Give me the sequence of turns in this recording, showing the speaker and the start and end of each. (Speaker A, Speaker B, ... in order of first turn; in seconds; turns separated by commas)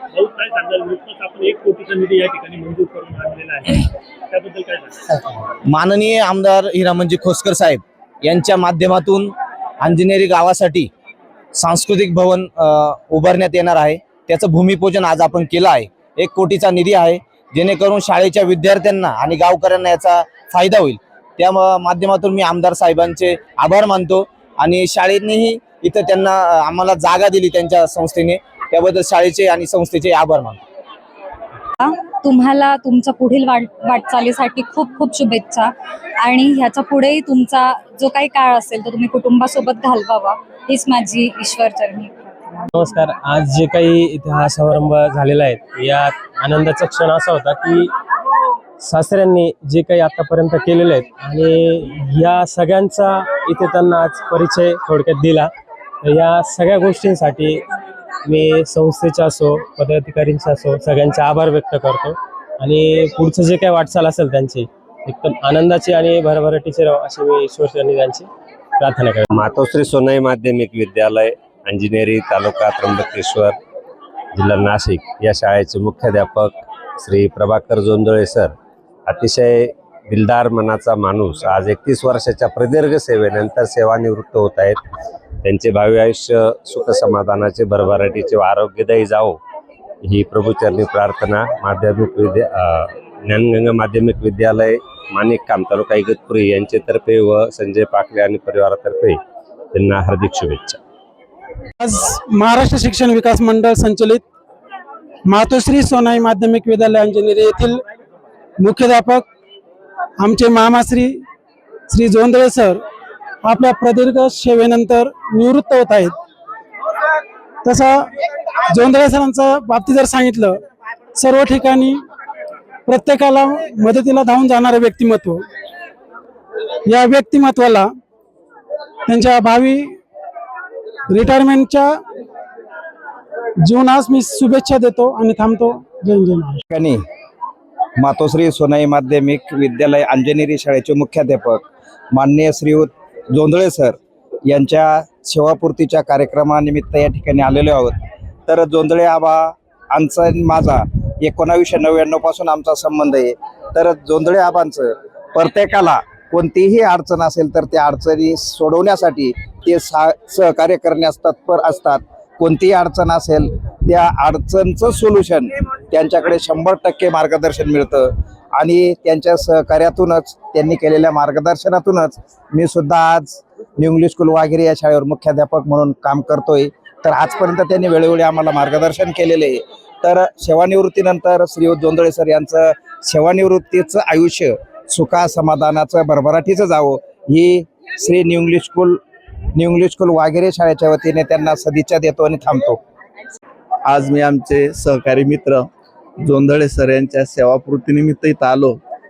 Speaker A: 0.1-5.1, Speaker B: 5.7-10.9, Speaker B: 11.5-30.6, Speaker C: 31.8-42.7, Speaker D: 42.7-47.9, Speaker D: 48.8-55.5, Speaker D: 56.0-57.6, Speaker D: 58.2-68.3, Speaker D: 68.8-69.3, Speaker E: 69.3-73.6, Speaker E: 74.3-78.5, Speaker E: 79.1-84.8, Speaker E: 85.4-89.4, Speaker E: 90.0-99.2, Speaker E: 99.7-100.8, Speaker F: 101.8-104.2, Speaker F: 105.3-107.8, Speaker F: 108.6-109.2, Speaker F: 110.2-111.2, Speaker F: 111.9-112.8, Speaker F: 113.4-116.1, Speaker F: 117.6-118.1, Speaker F: 118.7-120.6, Speaker F: 121.1-122.0, Speaker F: 122.9-125.5, Speaker F: 126.8-127.9, Speaker F: 129.1-130.0, Speaker F: 131.1-132.0, Speaker F: 133.6-136.6, Speaker B: 136.7-137.0, Speaker B: 138.0-189.0, Speaker B: 189.5-192.8, Speaker G: 193.9-195.6, Speaker G: 196.3-198.7